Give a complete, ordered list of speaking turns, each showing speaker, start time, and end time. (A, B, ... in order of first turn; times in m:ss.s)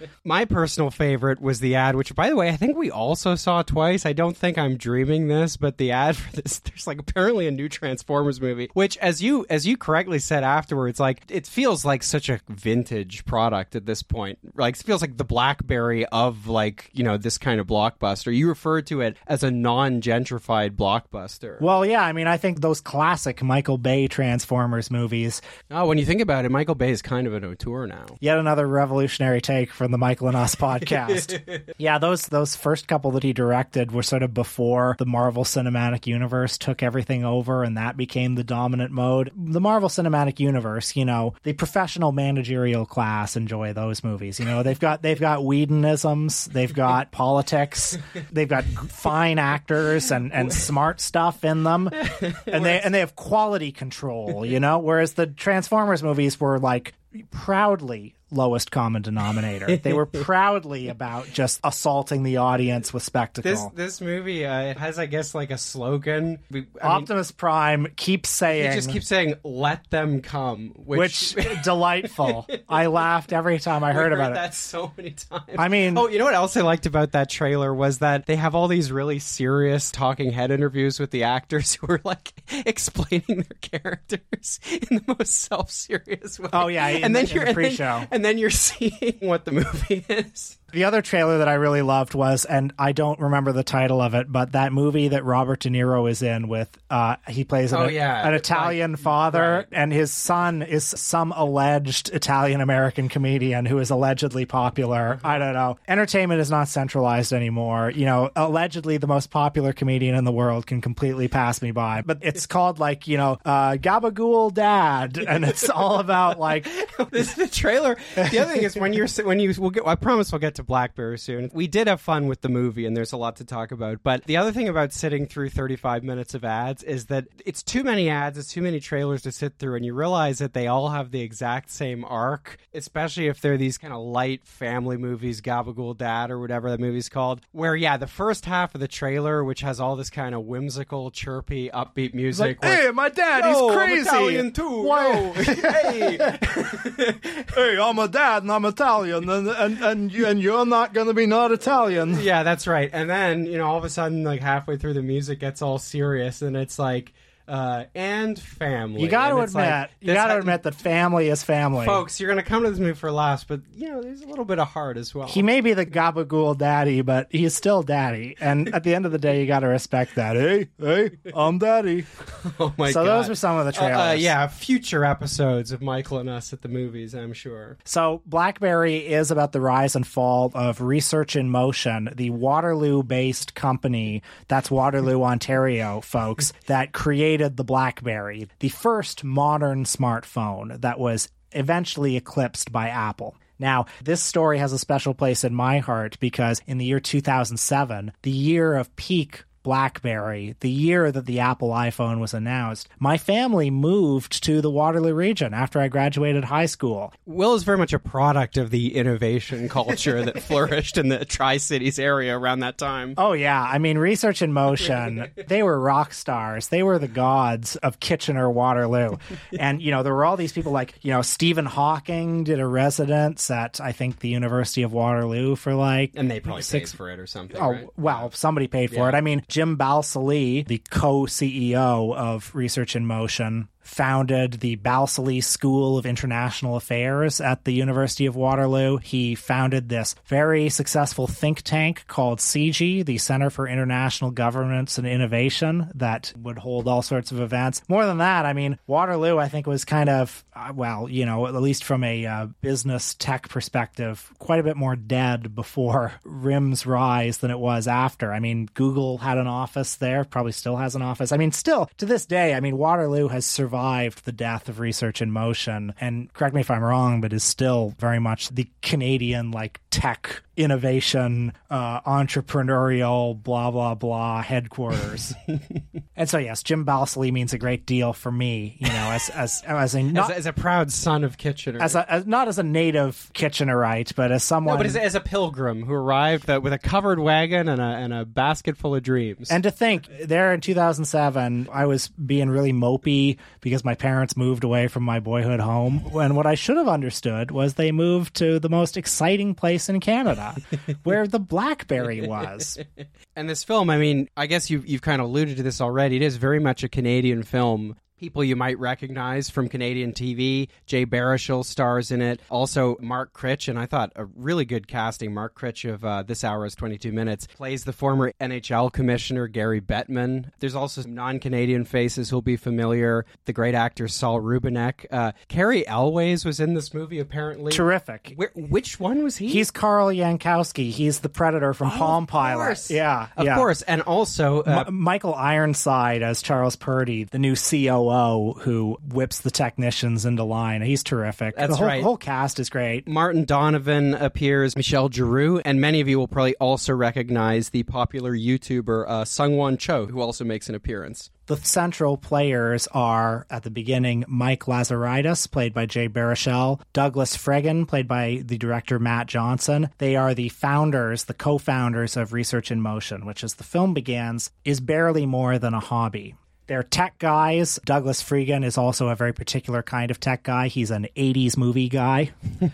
0:00.2-0:21.6 A
0:21.6-0:25.4 B
0:25.7-0:28.2 A
0:28.2-1:03.7 B
0:52.1-0:52.8 A
1:03.4-1:07.1 A
1:06.8-1:09.0 B
1:08.5-1:12.8 A
1:10.9-1:14.4 B
1:13.9-1:30.6 A
1:15.6-1:16.0 B
1:26.5-1:28.1 B
1:30.7-1:56.7 B
1:37.7-1:39.7 A
1:56.8-2:27.5 A
2:22.3-2:26.8 B
2:27.5-2:32.2 B
2:32.1-2:40.6 A
2:39.0-2:42.0 B
2:41.8-2:45.4 A
2:45.2-2:52.1 B
2:52.3-2:57.8 A
2:52.9-2:54.3 B
2:57.8-3:27.1 B
3:27.2-3:33.2 A
3:33.2-3:47.0 B
3:46.1-3:48.3 A
3:47.5-4:35.4 B
3:48.9-3:49.2 A
4:36.2-4:40.3 B
4:40.1-4:42.0 A
4:41.8-4:45.0 B
4:44.6-4:49.6 A
4:49.5-5:02.8 B
5:03.3-5:29.7 A
5:27.7-5:28.3 B
5:29.5-5:33.7 B
5:31.8-5:34.9 A
5:34.6-5:43.1 B
5:41.5-5:42.1 A
5:43.1-5:51.3 A
5:51.5-6:12.3 B